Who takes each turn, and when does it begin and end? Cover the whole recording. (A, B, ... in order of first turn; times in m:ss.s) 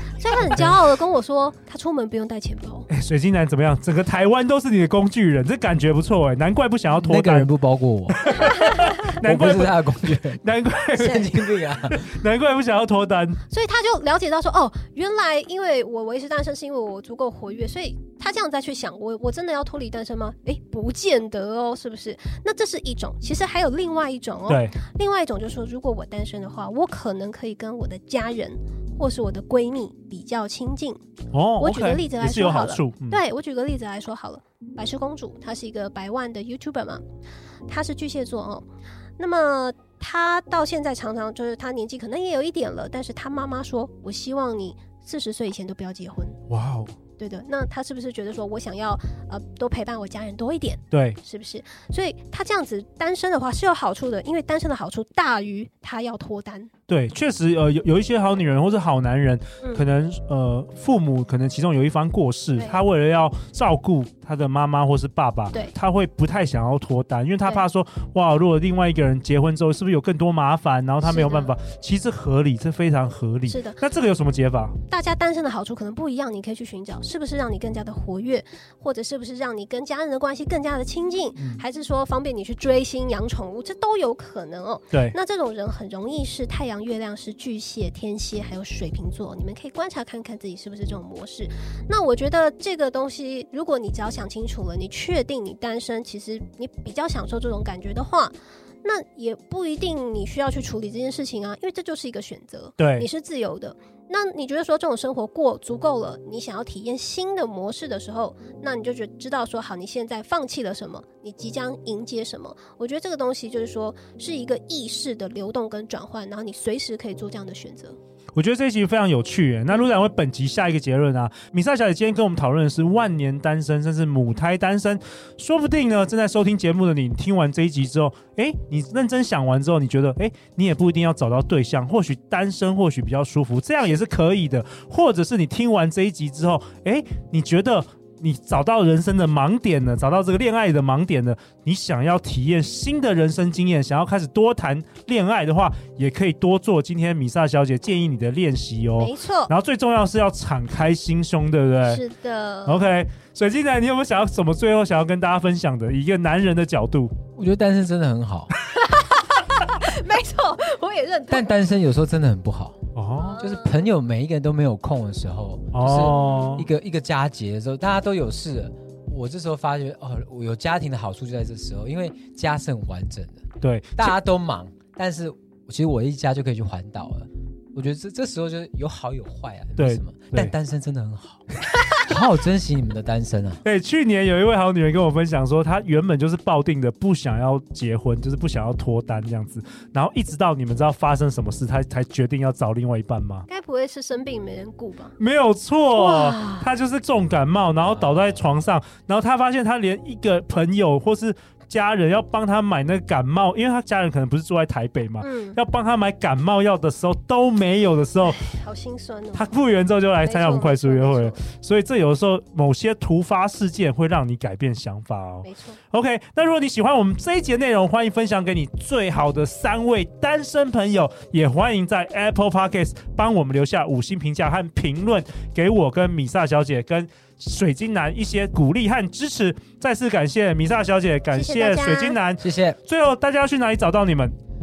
0:00.2-0:02.9 A
0:02.9-0:07.5 B
0:06.9-0:08.4 C
0:08.2-0:13.4 B
0:08.4-0:09.1 A
0:09.1-0:10.4 C
0:10.9-0:12.1 C
0:13.5-0:31.0 A
0:24.5-0:24.8 B
0:31.3-0:33.2 B
0:31.6-0:37.0 A
0:37.7-0:38.7 A
0:39.2-0:46.4 A
0:46.5-0:46.9 B
0:47.2-0:56.7 A
0:50.9-0:51.2 B
0:56.9-1:14.8 B
1:02.6-1:02.8 A
1:11.0-1:11.6 A
1:13.5-1:13.8 A
1:14.9-1:58.0 A
1:21.4-1:21.6 B
1:24.9-1:25.2 B
1:42.8-1:43.1 B
1:58.4-2:32.0 B
2:29.0-2:29.5 A
2:31.8-2:32.9 A
2:32.7-2:37.1 B
2:37.4-2:38.5 C
2:38.7-2:41.5 A
2:41.3-2:42.8 C
2:43.0-2:43.4 B
2:43.2-2:43.9 A
2:43.4-3:03.6 C
2:45.7-2:46.7 B
2:46.1-2:46.5 A
2:53.6-2:54.2 B
2:59.8-3:00.5 B
3:03.6-3:13.5 B
3:13.5-3:15.2 A
3:15.2-3:28.4 B
3:15.9-3:16.7 A
3:17.8-3:18.4 C
3:25.2-3:25.6 A
3:28.3-3:29.5 A
3:29.4-3:54.3 B
3:30.2-3:31.4 A
3:35.4-3:35.8 A
3:51.3-3:52.2 A
3:52.4-3:52.8 C